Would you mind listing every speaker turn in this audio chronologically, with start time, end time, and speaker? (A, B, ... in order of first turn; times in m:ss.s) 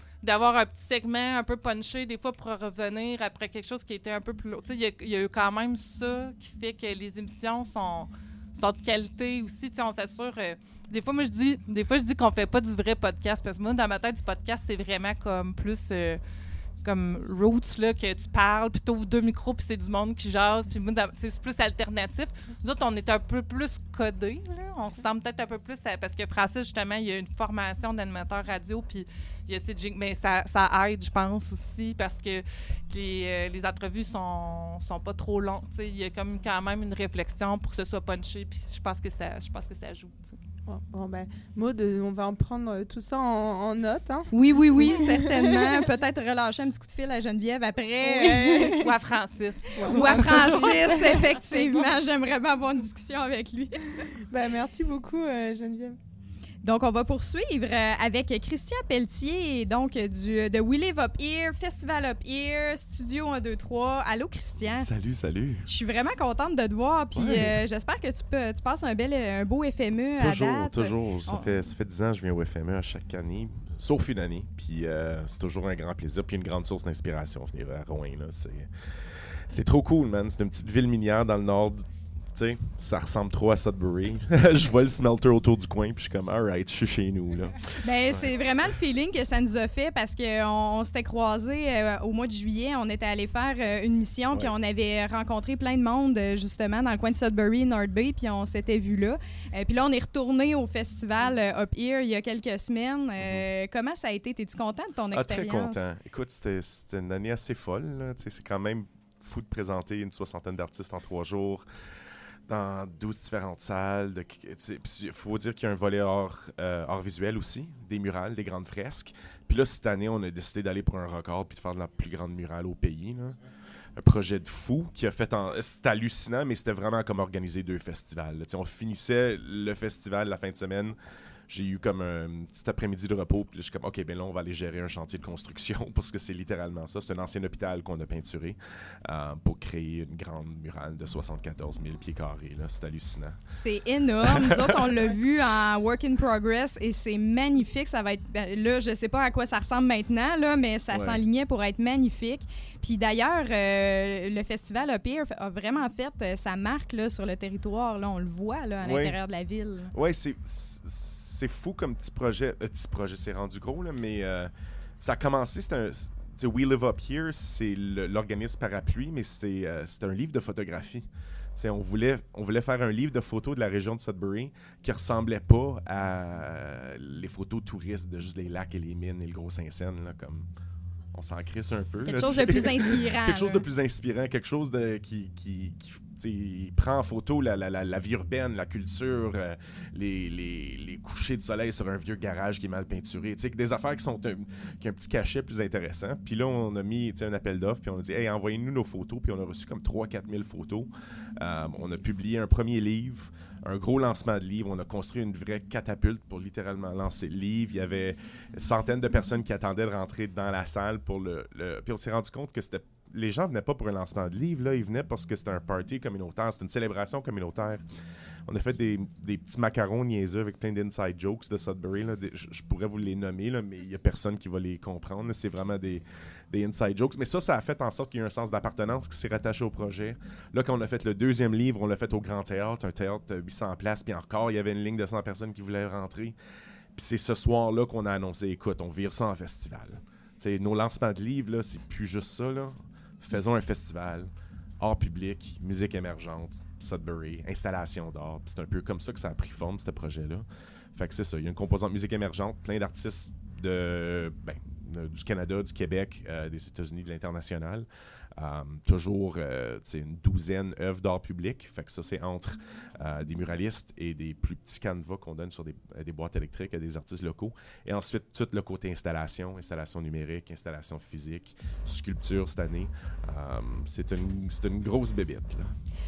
0:00.2-0:16.2 A
0:16.8-0:40.4 A
0:40.7-0:45.8 B
0:44.3-0:48.9 C
0:48.0-0:48.9 B
0:48.7-0:50.7 A
0:49.7-0:51.8 B
0:49.9-0:54.1 C
0:54.3-0:56.0 B
0:56.6-1:04.9 C
1:04.6-1:05.6 D
1:05.6-1:11.6 C
1:07.1-1:07.6 D
1:10.2-1:28.3 D
1:27.8-1:45.8 C
1:43.2-1:43.5 D
1:45.1-1:51.7 D
1:52.5-2:03.4 D
2:04.0-2:11.0 D
2:11.5-2:23.4 D
2:23.5-2:39.9 C
2:24.2-2:25.2 D
2:30.9-2:31.2 D
2:38.8-2:39.2 D
2:39.9-3:00.5 D
3:01.1-3:37.8 D
3:02.0-3:03.6 C
3:38.4-3:56.4 D
3:56.9-4:35.7 D